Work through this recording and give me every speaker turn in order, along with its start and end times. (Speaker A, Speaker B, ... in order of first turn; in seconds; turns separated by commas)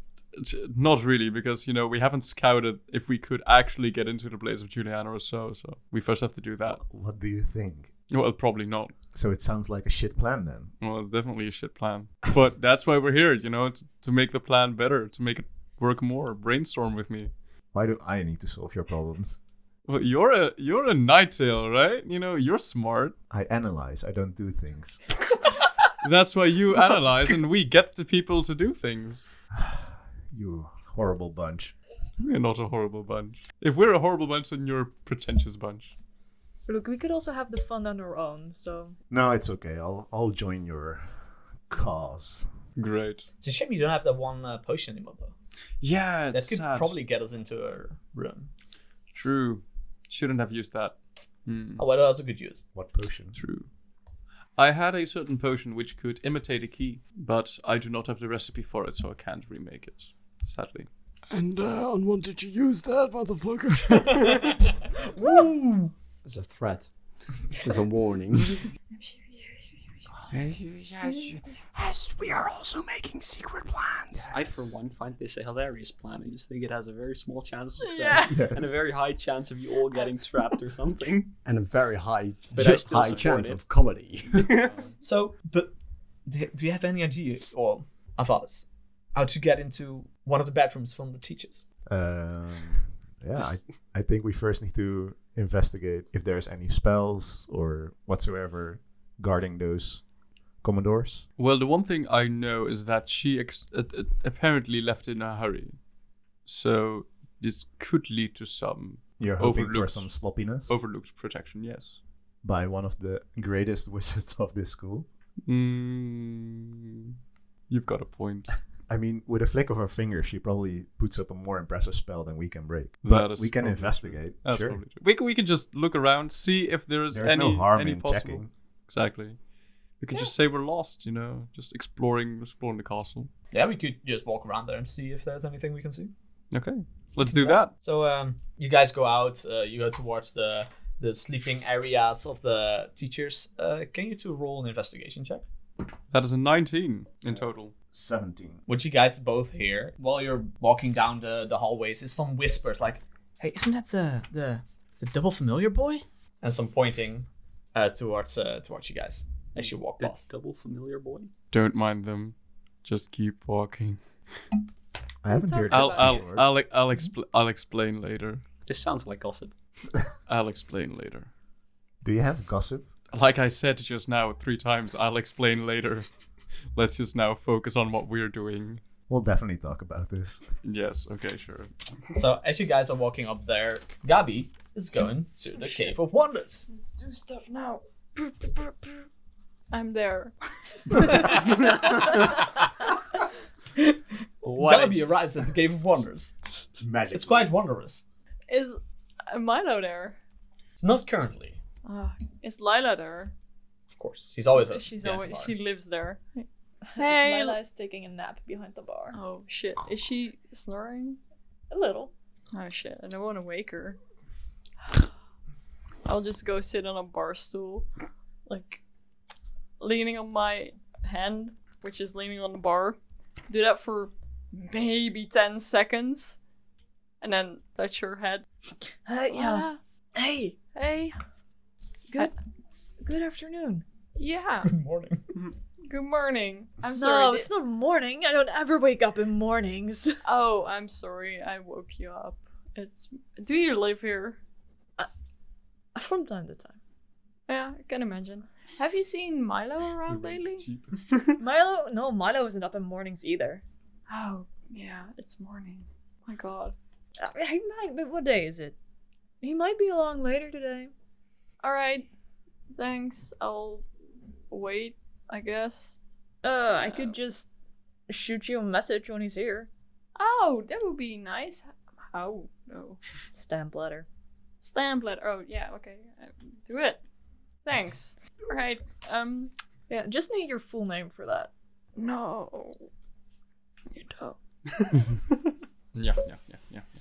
Speaker A: 0.3-6.8, Speaker B: 6.7-7.9, Speaker A: 8.1-9.0, Speaker B: 9.1-10.8, Speaker A: 10.8-17.3, Speaker B: 17.7-19.4, Speaker A: 19.9-23.2, Speaker B: 23.3-25.1, Speaker A: 26.0-29.3, Speaker B: 29.6-31.8, Speaker A: 32.2-35.9, Speaker C: 36.7-39.0, Speaker B: 39.1-42.5, Speaker A: 42.8-43.3, Speaker D: 43.4-45.3, Speaker A: 45.8-47.0, Speaker D: 46.3-48.5, Speaker A: 49.1-51.8, Speaker D: 51.8-52.6, Speaker B: 52.7-53.4, Speaker A: 53.4-53.7, Speaker A: 54.6-60.9, Speaker E: 61.3-64.5, Speaker D: 65.1-65.9, Speaker E: 66.2-66.9, Speaker E: 67.5-68.6, Speaker F: 68.9-70.1, Speaker E: 70.3-74.3, Speaker B: 74.2-74.5, Speaker G: 74.3-81.3, Speaker F: 77.8-78.5, Speaker B: 78.2-78.7, Speaker E: 81.5-84.6, Speaker G: 82.5-83.6, Speaker G: 84.3-84.7, Speaker A: 84.6-84.9, Speaker D: 85.0-85.7, Speaker D: 86.3-91.7, Speaker B: 91.9-100.1, Speaker B: 100.6-101.3, Speaker A: 101.4-105.8, Speaker A: 106.5-112.0, Speaker B: 109.2-110.8, Speaker B: 112.4-115.1, Speaker A: 115.5-117.1, Speaker A: 117.7-118.5, Speaker B: 118.9-124.8, Speaker A: 123.0-129.4, Speaker B: 127.1-128.5, Speaker A: 130.0-133.3, Speaker D: 133.5-136.1, Speaker A: 136.5-137.7, Speaker D: 137.3-145.4, Speaker A: 146.1-147.8, Speaker B: 147.9-148.6, Speaker D: 148.7-160.3, Speaker G: 159.6-161.3, Speaker A: 161.5-164.0, Speaker B: 165.2-166.5, Speaker C: 165.3-166.2, Speaker A: 165.7-168.4, Speaker G: 168.7-169.5, Speaker A: 170.3-171.3, Speaker B: 172.0-172.9, Speaker A: 173.1-176.1, Speaker A: 176.7-178.8, Speaker B: 179.1-180.5, Speaker A: 180.6-181.7, Speaker D: 182.1-186.7, Speaker F: 185.6-185.9, Speaker F: 186.7-189.1, Speaker F: 189.7-192.4, Speaker G: 194.4-195.2, Speaker D: 194.5-196.4, Speaker B: 196.8-197.6, Speaker D: 197.1-198.0, Speaker F: 198.5-200.2, Speaker D: 200.8-201.6, Speaker F: 201.8-203.3, Speaker D: 203.9-205.6, Speaker F: 204.6-207.6, Speaker C: 206.9-209.2, Speaker F: 209.1-211.2, Speaker C: 211.7-212.1, Speaker F: 212.5-214.0, Speaker F: 216.1-217.9, Speaker F: 218.5-218.8, Speaker F: 219.8-223.0, Speaker F: 223.5-226.4, Speaker F: 227.2-228.5, Speaker C: 229.1-230.6, Speaker F: 229.3-229.8, Speaker F: 230.7-231.2, Speaker C: 233.0-233.8, Speaker F: 234.2-234.7, Speaker D: 234.6-235.2, Speaker F: 235.9-237.5, Speaker C: 237.0-240.2, Speaker F: 240.2-244.4, Speaker C: 245.9-246.8, Speaker F: 247.5-250.7, Speaker A: 250.1-251.0, Speaker C: 251.4-253.6, Speaker F: 254.1-256.8, Speaker C: 257.2-258.8, Speaker C: 259.4-260.9, Speaker F: 261.6-262.1, Speaker F: 262.7-263.9, Speaker F: 264.5-266.0, Speaker C: 266.4-267.5, Speaker F: 266.8-267.1, Speaker C: 268.1-269.7, Speaker F: 270.2-273.0, Speaker C: 273.4-274.1, Speaker F: 274.6-277.0, Speaker F: 277.6-279.5, Speaker C: 279.9-281.5, Speaker F: 282.0-282.9, Speaker F: 283.9-284.4, Speaker A: 285.9-286.9